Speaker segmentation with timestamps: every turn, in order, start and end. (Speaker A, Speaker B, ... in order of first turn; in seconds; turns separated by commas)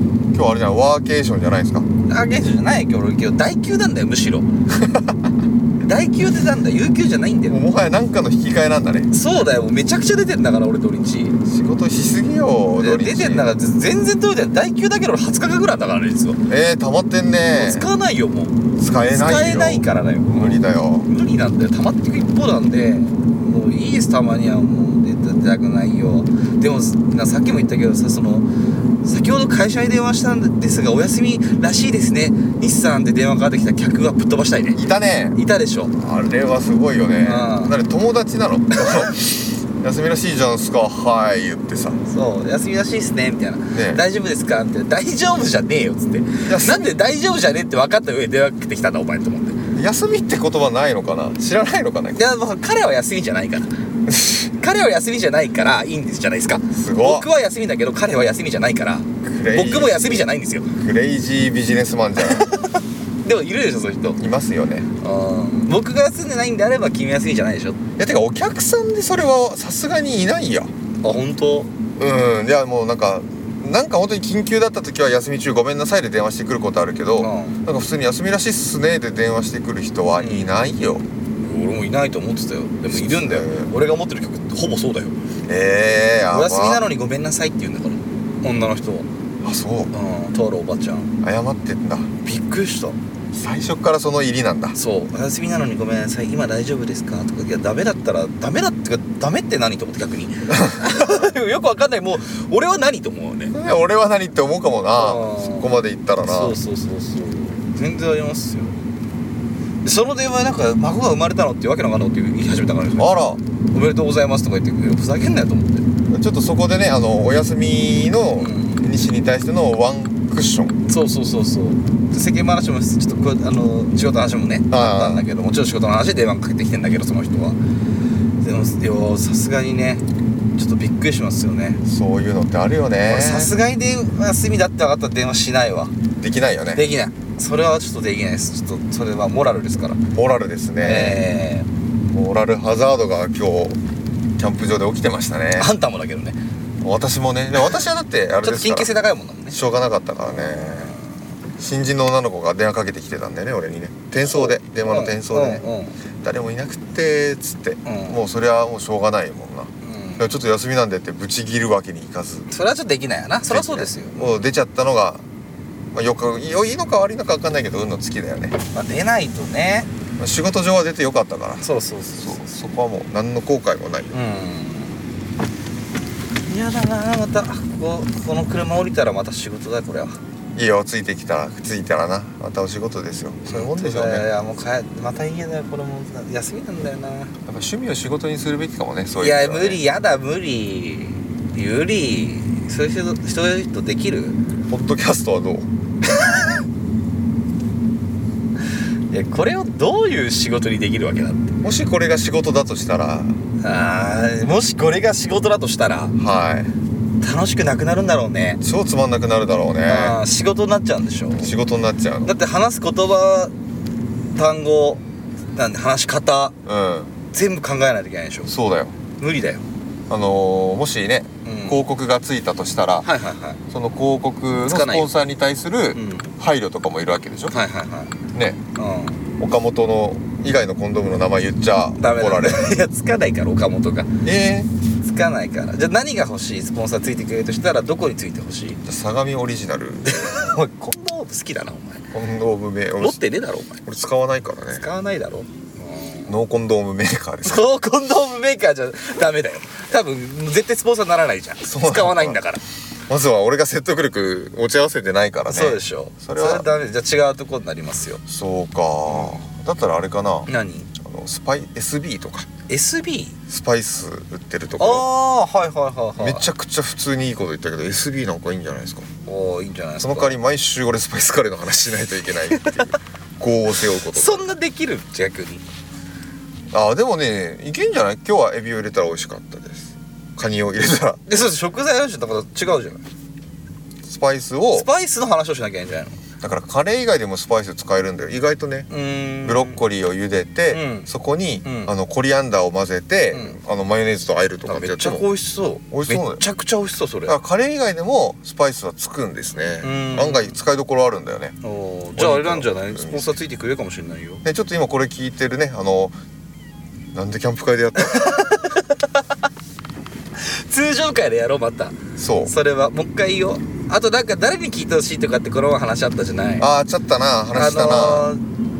Speaker A: 0.3-1.9, Speaker B: 2.1-4.5, Speaker A: 4.8-5.1, Speaker B: 5.8-7.6, Speaker A: 7.5-9.1, Speaker B: 9.1-11.4, Speaker A: 11.4-13.5, Speaker B: 12.8-16.4, Speaker A: 16.5-17.9, Speaker B: 17.5-18.6, Speaker A: 18.8-21.1, Speaker B: 19.1-28.5, Speaker B: 29.0-34.8, Speaker A: 34.7-35.4, Speaker B: 35.4-35.9, Speaker A: 35.9-42.0, Speaker B: 37.2-37.7, Speaker B: 42.0-49.6, Speaker A: 43.7-44.0, Speaker A: 46.4-46.9, Speaker A: 49.7-52.2, Speaker B: 52.1-53.7, Speaker A: 54.1-54.5, Speaker B: 54.6-60.7, Speaker A: 56.7-57.3, Speaker A: 59.2-62.5, Speaker B: 62.2-64.2, Speaker A: 64.2-64.9, Speaker B: 65.0-67.8, Speaker A: 68.0-70.7, Speaker B: 71.0-71.7, Speaker A: 72.0-81.0, Speaker B: 77.2-77.6, Speaker B: 80.2-80.5, Speaker B: 81.4-85.2, Speaker A: 82.9-83.7, Speaker A: 85.5-86.8, Speaker B: 86.3-89.1, Speaker A: 89.4-89.9, Speaker B: 89.9-91.1, Speaker A: 91.2-92.1, Speaker B: 92.2-93.0, Speaker A: 93.3-94.8, Speaker B: 94.7-103.6, Speaker A: 100.5-101.1, Speaker A: 103.5-106.5, Speaker B: 104.9-105.7, Speaker B: 106.2-108.8, Speaker B: 109.8-113.2, Speaker A: 113.0-113.4, Speaker B: 113.7-115.8, Speaker A: 116.1-120.8, Speaker B: 118.4-118.8, Speaker B: 120.9-127.6, Speaker A: 124.7-125.2, Speaker B: 128.4-130.0, Speaker B: 130.6-131.8, Speaker A: 131.8-133.5, Speaker B: 133.0-135.9, Speaker A: 136.2-136.8, Speaker B: 136.7-140.0, Speaker A: 140.1-141.2, Speaker B: 140.8-141.7, Speaker A: 142.1-143.8, Speaker A: 144.4-145.7, Speaker B: 145.6-146.4, Speaker A: 146.8-148.9, Speaker B: 148.4-149.6, Speaker A: 149.5-150.9, Speaker B: 150.2-151.1, Speaker A: 151.6-155.6, Speaker B: 154.2-156.0, Speaker A: 156.2-162.5, Speaker B: 157.8-158.2, Speaker B: 159.8-160.3, Speaker B: 162.5-164.3, Speaker A: 163.5-165.2, Speaker A: 165.9-168.6, Speaker B: 168.7-169.9, Speaker A: 170.2-171.6, Speaker B: 171.6-172.5, Speaker A: 172.2-174.1, Speaker B: 174.1-175.0, Speaker B: 176.5-180.2, Speaker A: 180.5-184.2, Speaker B: 183.5-187.3, Speaker A: 187.4-189.8, Speaker B: 189.2-194.4, Speaker A: 194.7-195.7, Speaker B: 199.1-201.5, Speaker A: 201.6-203.4, Speaker B: 203.6-206.1, Speaker A: 206.2-206.7, Speaker B: 207.2-208.6, Speaker A: 208.6-210.2, Speaker B: 209.8-211.5, Speaker A: 211.4-212.3, Speaker B: 212.2-213.5, Speaker B: 214.3-215.0, Speaker B: 215.6-216.5, Speaker A: 216.6-217.1, Speaker B: 217.3-218.5, Speaker A: 218.4-218.9, Speaker B: 219.2-219.6, Speaker A: 220.1-223.1, Speaker B: 221.4-221.8, Speaker B: 223.0-223.6, Speaker A: 223.7-227.6, Speaker B: 224.7-225.1, Speaker B: 225.9-226.3, Speaker B: 227.5-228.2, Speaker A: 228.3-228.6, Speaker B: 228.8-229.2, Speaker A: 229.4-232.8, Speaker B: 232.0-234.1, Speaker A: 234.2-234.7, Speaker B: 235.0-238.8, Speaker A: 238.8-240.3, Speaker B: 240.0-242.1, Speaker A: 242.1-243.2, Speaker B: 243.0-243.8, Speaker A: 243.8-244.8, Speaker B: 244.7-246.3, Speaker A: 246.3-247.7, Speaker B: 247.4-252.6, Speaker A: 251.6-252.4, Speaker A: 253.1-256.7, Speaker B: 255.5-258.2, Speaker A: 258.2-262.5, Speaker B: 259.1-259.5, Speaker B: 260.5-260.9, Speaker B: 262.7-263.4, Speaker A: 263.5-265.1, Speaker B: 264.8-266.4, Speaker A: 266.2-269.1, Speaker B: 269.2-270.4, Speaker A: 270.0-274.5, Speaker B: 272.5-272.9, Speaker B: 274.1-275.6, Speaker A: 276.7-281.2, Speaker B: 281.3-283.0, Speaker A: 284.0-284.9, Speaker B: 284.7-286.2, Speaker A: 286.4-288.9, Speaker B: 288.9-289.8, Speaker A: 289.4-295.3, Speaker B: 290.7-291.1, Speaker B: 291.6-291.9, Speaker B: 293.3-293.6, Speaker B: 294.6-297.4, Speaker A: 295.9-296.4, Speaker A: 297.2-301.6, Speaker B: 299.8-300.5, Speaker B: 301.6-304.4, Speaker A: 302.1-303.4, Speaker A: 304.4-306.2, Speaker A: 307.1-308.4, Speaker B: 308.0-309.2, Speaker B: 310.4-316.7, Speaker A: 312.2-312.5, Speaker A: 316.6-318.3, Speaker B: 317.5-318.4